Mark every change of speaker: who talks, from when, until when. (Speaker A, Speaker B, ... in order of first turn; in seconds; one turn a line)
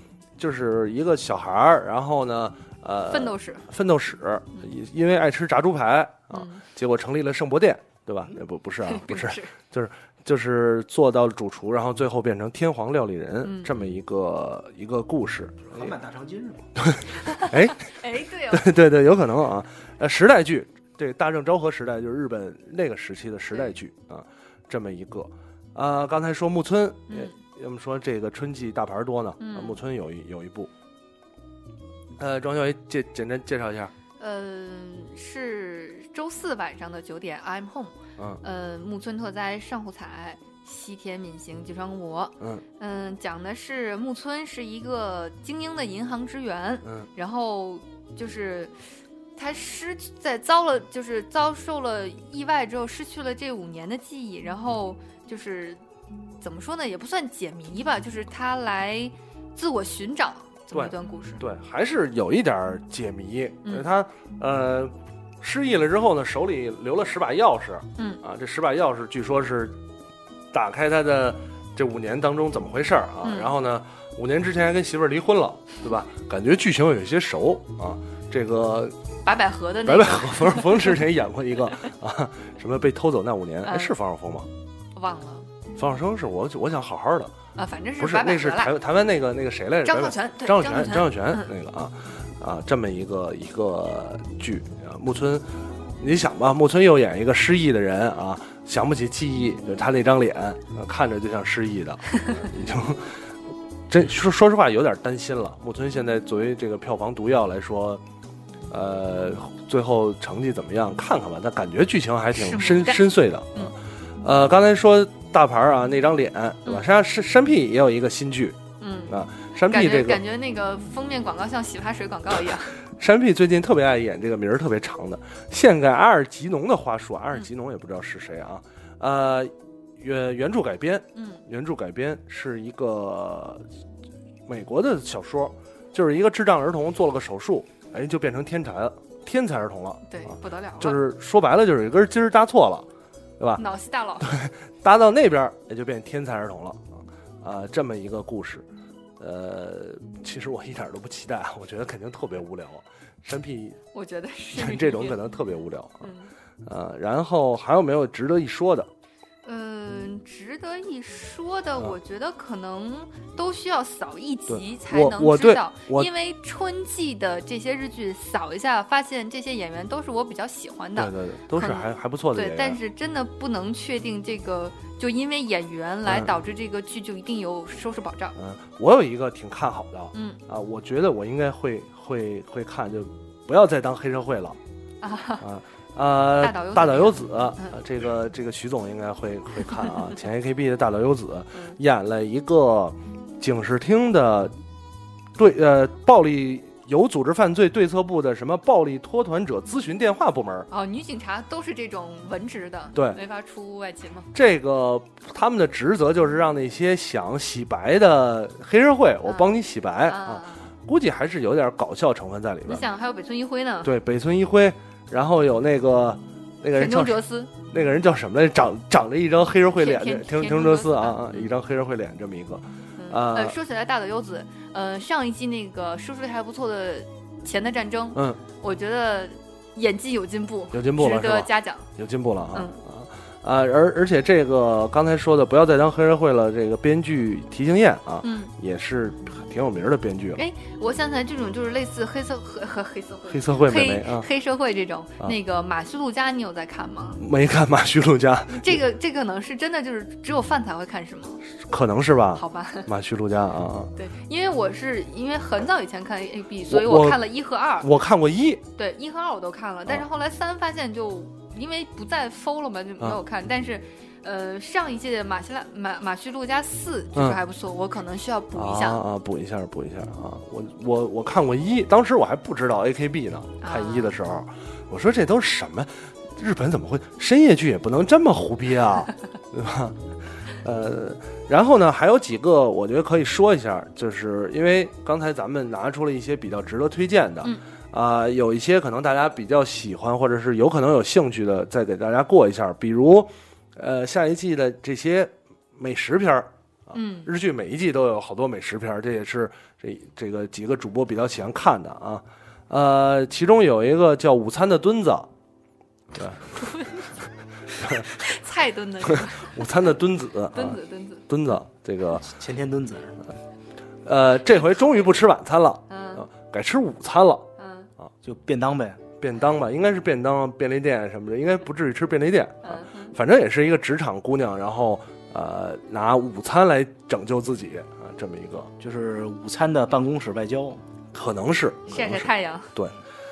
Speaker A: 0.4-15.9
Speaker B: 3.1-3.6
Speaker B: 6.3-6.6
Speaker B: 8.8-9.5
Speaker B: 13.4-13.7
Speaker C: 15.7-16.7
Speaker A: 16.8-17.8
Speaker B: 17.2-18.7
Speaker A: 18.5-30.7
Speaker B: 27.1-27.4
Speaker B: 29.4-29.8
Speaker A: 32.2-33.9
Speaker B: 34.2-48.7
Speaker B: 49.4-55.8
Speaker B: 56.4-61.4
Speaker A: 60.7-69.8
Speaker A: 70.5-78.9
Speaker B: 73.2-73.5
Speaker B: 79.2-81.0
Speaker A: 79.8-84.5
Speaker B: 83.6-83.9
Speaker B: 84.9-85.5
Speaker A: 85.8-87.3
Speaker B: 87.5-88.8
Speaker A: 88.0-95.5
Speaker B: 89.8-91.5
Speaker A: 96.0-103.2
Speaker A: 103.9-108.0
Speaker A: 108.7-120.2
Speaker B: 112.3-113.7
Speaker B: 118.8-122.8
Speaker A: 122.9-133.6
Speaker B: 131.1-131.4
Speaker A: 134.5-142.9
Speaker B: 140.1-141.0
Speaker B: 143.6-144.3
Speaker A: 144.2-148.7
Speaker A: 149.2-153.8
Speaker B: 153.9-155.2
Speaker A: 154.5-156.1
Speaker B: 156.0-156.3
Speaker A: 156.6-158.9
Speaker B: 159.4-178.4
Speaker A: 164.5-166.1
Speaker A: 170.9-172.8
Speaker A: 178.4-184.6
Speaker B: 180.1-180.4
Speaker B: 185.0-185.4
Speaker A: 185.4-194.5
Speaker B: 186.4-187.8
Speaker A: 195.3-200.7
Speaker B: 200.7-204.3
Speaker A: 202.9-203.2
Speaker A: 204.3-212.8
Speaker B: 209.2-210.7
Speaker B: 212.7-213.9
Speaker A: 213.8-223.6
Speaker B: 216.7-217.5
Speaker B: 219.8-221.5
Speaker B: 223.0-231.9
Speaker A: 228.1-228.4
Speaker A: 230.7-240.4
Speaker B: 232.5-232.8
Speaker B: 238.2-238.5
Speaker B: 240.3-247.2
Speaker A: 243.3-244.3
Speaker A: 247.2-248.8
Speaker B: 248.5-251.4
Speaker A: 251.6-253.9
Speaker B: 252.3-252.9
Speaker B: 253.9-257.9
Speaker A: 256.7-257.2
Speaker A: 257.8-258.6
Speaker B: 258.8-269.0
Speaker A: 268.5-280.0
Speaker B: 273.6-274.1
Speaker A: 280.6-305.3
Speaker B: 296.9-297.3
Speaker A: 306.1-306.6
Speaker B: 306.6-307.0
Speaker B: 307.8-309.7
Speaker A: 307.8-308.1
Speaker A: 309.1-312.3
Speaker B: 310.5-311.2
Speaker C: 312.1-313.2
Speaker A: 314.0-317.5
Speaker B: 314.7-315.0
Speaker B: 315.9-316.2
Speaker B: 317.6-317.9
Speaker C: 318.2-319.0
Speaker A: 319.2-328.7
Speaker B: 322.6-323.1
Speaker C: 328.8-330.8
Speaker A: 331.1-332.9
Speaker B: 331.9-332.7